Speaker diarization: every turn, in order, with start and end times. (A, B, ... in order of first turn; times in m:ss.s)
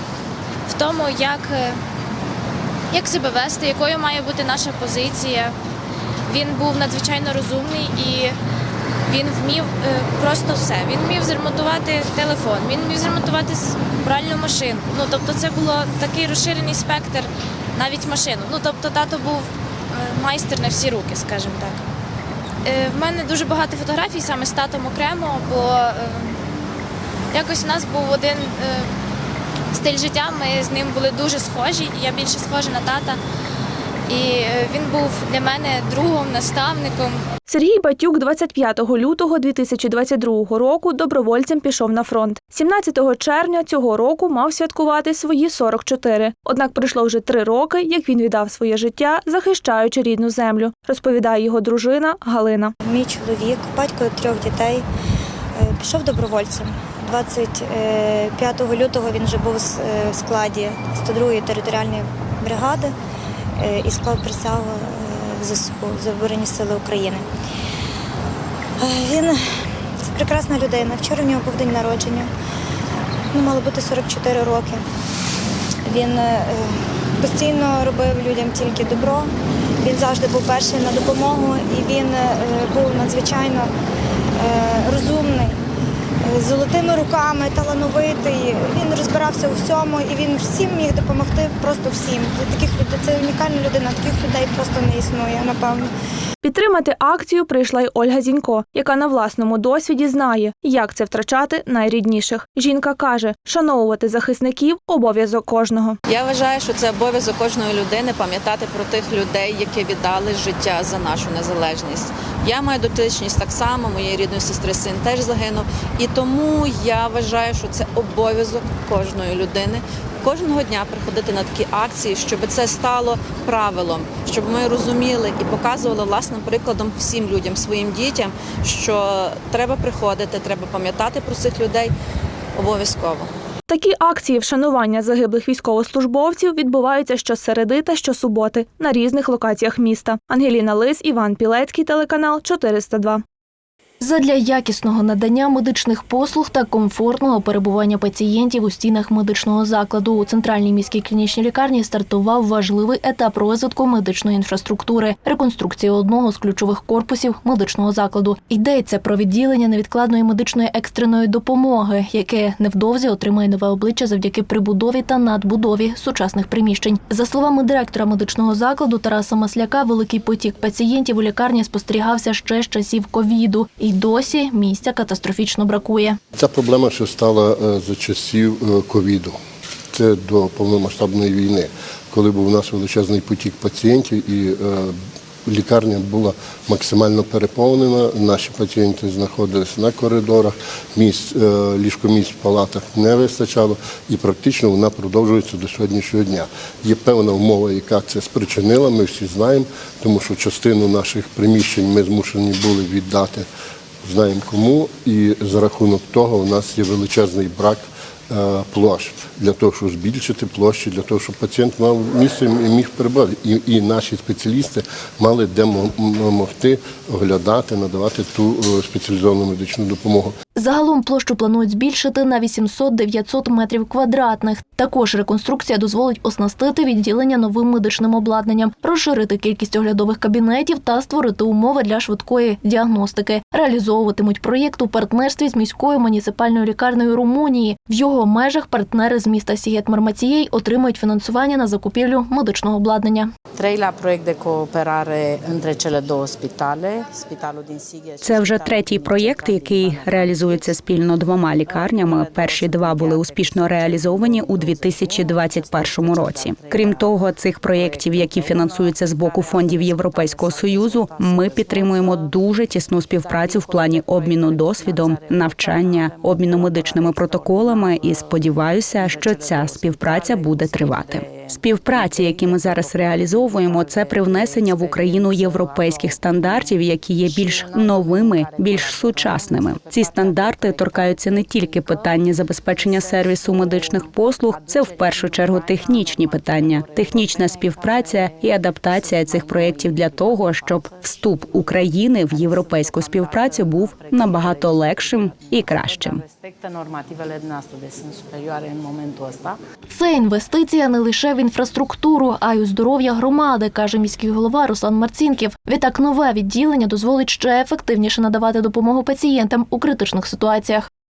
0:00.7-0:01.8 A
0:02.9-0:05.5 A
0:06.3-0:08.3 A
0:09.1-0:17.3 A
0:17.8-0:19.4 A
0:20.0-0:21.8 A
0:22.7-0:26.3 A
0:27.3-0:28.9 A
0:29.8-0:33.2 A
0:34.1-0:37.2 A
0:37.5-0:52.7 B
0:52.8-0:54.8 C
0:55.6-1:02.9 C
1:03.6-1:07.2 C
1:08.8-1:09.4 C
1:10.1-1:12.3 C
1:13.3-1:14.8 C
1:15.8-1:19.3 C
1:19.8-1:23.7 C
1:24.4-1:25.6 C
1:26.3-1:35.9 C
1:36.4-1:46.0 B
1:46.1-2:11.9 D
2:12.6-2:13.3 D
2:13.7-2:23.2 B
2:24.0-2:56.2 E
2:56.4-2:59.4 F
2:59.9-3:23.5 F
3:24.0-3:40.3 F
3:40.6-4:03.3 E
4:03.6-4:09.8 G
4:08.2-4:56.2 H
4:56.0-4:59.6 G
4:59.9-5:10.9 E